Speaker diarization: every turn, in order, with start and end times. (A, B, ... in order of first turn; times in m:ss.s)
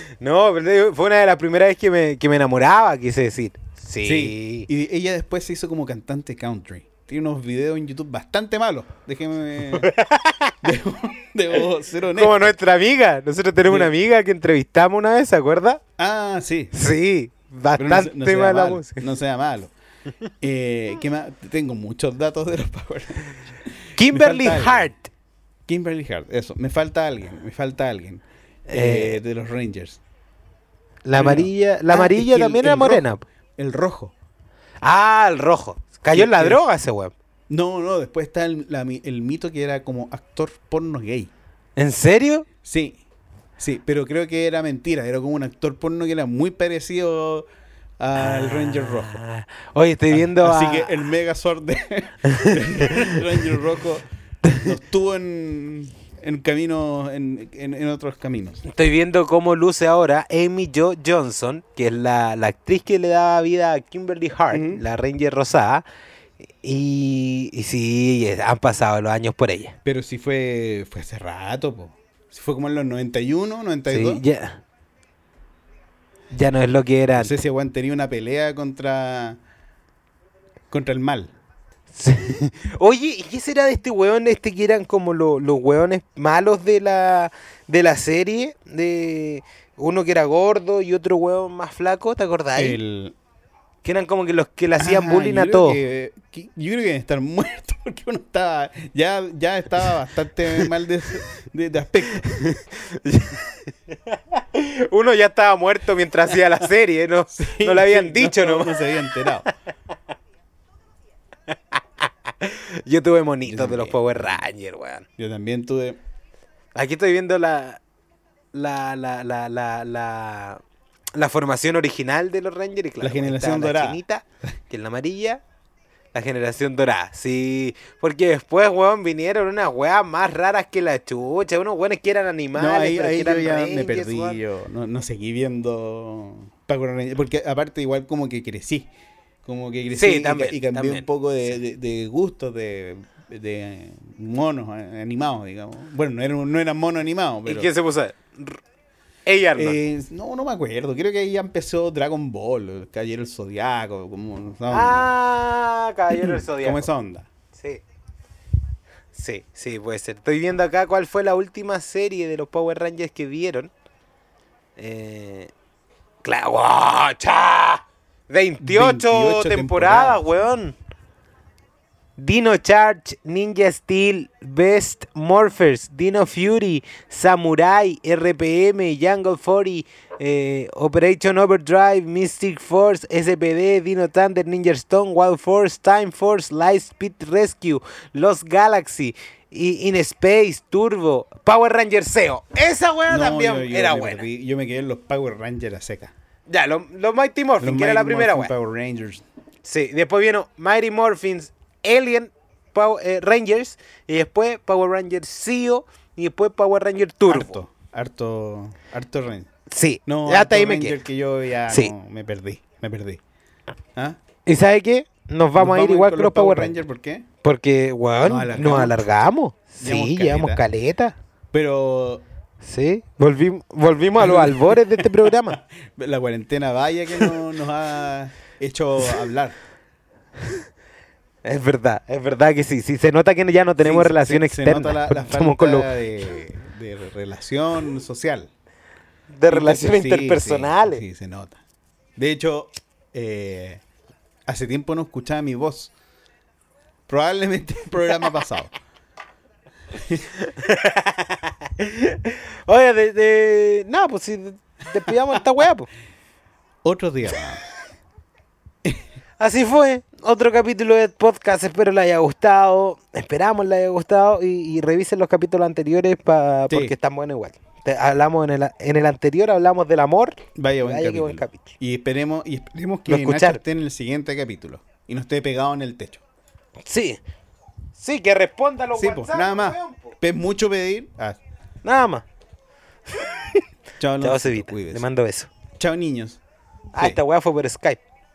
0:00.2-0:04.7 A
0:04.0-0:09.9 B
0:09.7-0:10.6 A
0:10.6-0:12.5 B
0:12.2-0:15.8 A
0:13.6-0:13.9 B
0:16.0-0:16.7 B
0:16.7-0:19.0 A
0:17.8-0:19.7 B
0:20.4-0:24.9 B
0:24.0-0:25.1 A
0:25.7-0:30.0 B
0:28.7-0:29.2 A
0:31.0-0:33.2 A
0:31.1-0:34.1 B
0:34.8-0:37.1 A
0:36.1-0:36.6 B
0:37.5-0:41.3 B
0:41.8-0:42.5 A
0:42.6-0:43.0 B
0:43.6-0:47.5 B
0:48.0-0:49.2 B
0:48.2-0:51.0 A
0:50.1-0:58.6 B
0:52.3-0:53.5 A
0:58.6-1:05.8 A
1:04.5-1:04.8 B
1:06.6-1:09.8 A
1:09.8-1:14.2 B
1:13.9-1:14.6 A
1:16.3-1:17.4 A
1:17.2-1:19.4 B
1:20.7-1:21.3 B
1:21.9-1:32.8 A
1:32.6-1:33.2 B
1:33.8-1:35.8 A
1:34.8-1:42.4 B
1:42.2-1:49.5 A
1:47.3-1:49.5 B
1:52.4-1:55.1 A
1:53.4-1:54.4 B
1:55.2-1:56.0 B
1:56.8-1:57.8 A
1:58.5-2:00.6 A
2:01.2-2:05.4 A
2:03.0-2:04.0 B
2:06.1-2:14.4 A
2:12.6-2:18.9 B
2:19.4-2:27.7 B
2:19.9-2:21.1 A
2:27.5-2:28.6 A
2:29.3-2:29.8 A
2:29.6-2:35.1 B
2:34.7-2:36.9 A
2:36.1-2:37.3 B
2:37.6-2:37.8 A
2:39.1-2:43.7 A
2:44.8-2:45.5 A
2:46.2-2:50.8 A
2:48.6-2:50.2 B
2:52.2-3:14.2 A
3:13.1-3:16.1 B
3:16.5-3:18.5 A
3:17.6-3:19.2 B
3:19.6-3:27.6 A
3:27.3-3:29.5 B
3:29.7-3:31.0 A
3:30.1-3:33.2 B
3:34.5-3:36.8 A
3:35.6-3:37.3 B
3:37.4-3:41.2 A
3:38.2-3:39.1 B
3:39.8-3:40.6 B
3:41.5-3:42.2 B
3:42.6-3:45.6 A
3:44.2-3:49.6 B
3:51.4-3:56.4 A
3:53.8-3:58.5 B
3:59.3-4:01.0 A
3:59.5-4:01.6 B
4:02.2-4:03.8 B
4:04.5-4:05.9 B
4:07.1-4:08.7 B
4:09.9-4:10.4 B
4:10.5-4:15.9 A
4:16.8-4:17.6 B
4:19.4-4:31.8 A
4:26.7-4:27.0 B
4:30.6-4:36.2 B
4:33.1-4:33.6 A
4:36.9-4:37.2 A
4:38.0-4:40.2 A
4:39.0-4:41.4 B
4:41.8-4:42.2 A
4:43.1-4:43.6 A
4:44.0-4:45.0 B
4:44.2-4:45.5 A
4:45.8-4:46.4 B
4:46.9-4:48.0 A
4:47.0-4:47.2 B